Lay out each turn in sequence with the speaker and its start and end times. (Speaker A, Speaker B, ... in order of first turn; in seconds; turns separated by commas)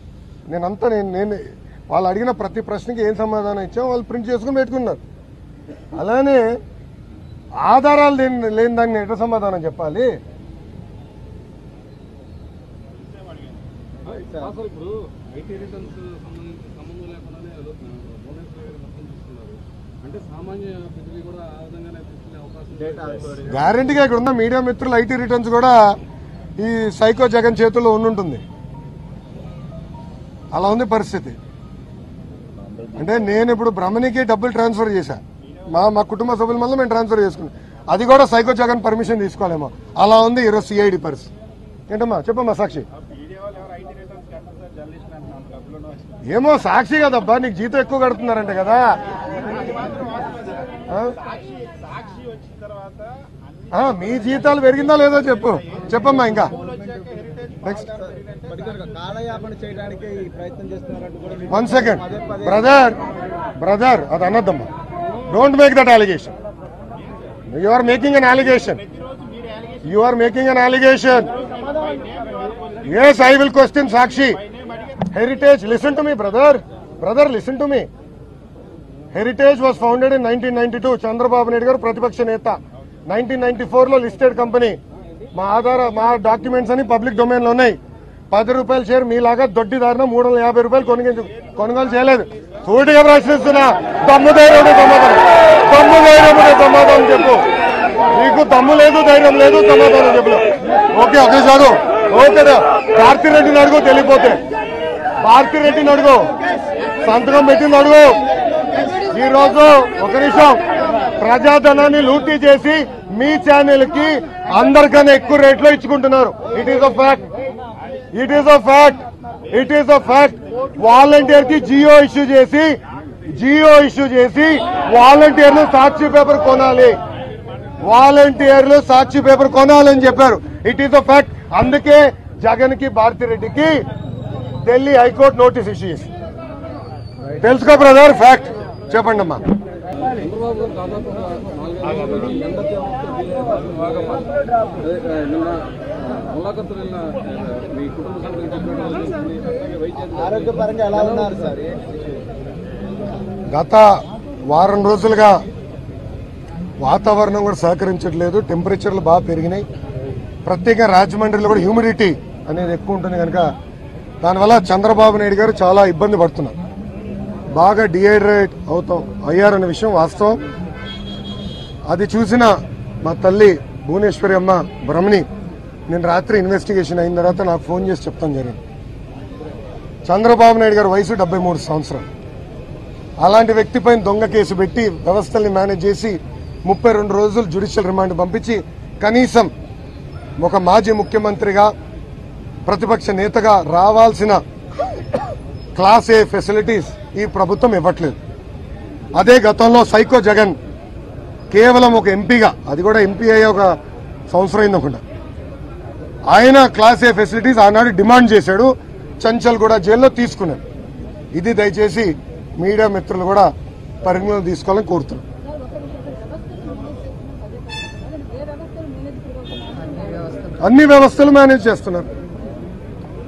Speaker A: 0.5-5.0, Speaker A: 5.9-6.6, Speaker A: 7.5-10.2, Speaker B: 14.1-14.5, Speaker C: 14.4-22.9, Speaker B: 22.8-23.4, Speaker A: 23.4-26.0, Speaker A: 26.6-28.4, Speaker A: 30.5-31.4, Speaker A: 32.9-41.3, Speaker A: 41.9-42.9, Speaker A: 46.3-49.0, Speaker A: 50.9-51.2, Speaker A: 53.7-56.5, Speaker A: 57.6-58.0, Speaker B: 58.2-61.5, Speaker A: 61.5-63.0, Speaker A: 63.6-64.7, Speaker A: 65.3-66.3, Speaker A: 67.5-68.8, Speaker A: 69.8-71.3, Speaker A: 72.8-74.4, Speaker A: 75.0-77.9, Speaker A: 79.1-84.8, Speaker A: 85.3-87.8, Speaker A: 88.3-97.5, Speaker A: 98.1-104.4, Speaker A: 105.2-106.3, Speaker A: 107.0-108.2, Speaker A: 109.0-110.6, Speaker A: 111.2-117.2, Speaker A: 118.1-122.8, Speaker A: 123.3-127.0, Speaker A: 127.8-133.8, Speaker A: 134.6-136.1, Speaker A: 137.4-139.4, Speaker C: 140.2-144.2, Speaker C: 144.8-145.8, Speaker C: 146.3-150.1, Speaker B: 150.0-152.2, Speaker A: 153.5-155.4, Speaker A: 156.8-159.7, Speaker A: 160.4-163.5, Speaker A: 164.2-166.6, Speaker A: 167.5-170.4, Speaker A: 171.9-175.3, Speaker A: 175.9-178.6, Speaker A: 180.1-182.1, Speaker A: 183.2-189.5, Speaker A: 190.4-191.7, Speaker A: 192.7-194.4, Speaker A: 195.8-198.2, Speaker A: 199.2-200.6, Speaker A: 201.5-203.8, Speaker A: 204.3-205.0, Speaker A: 206.3-210.6, Speaker A: 211.3-215.2, Speaker A: 220.6-222.1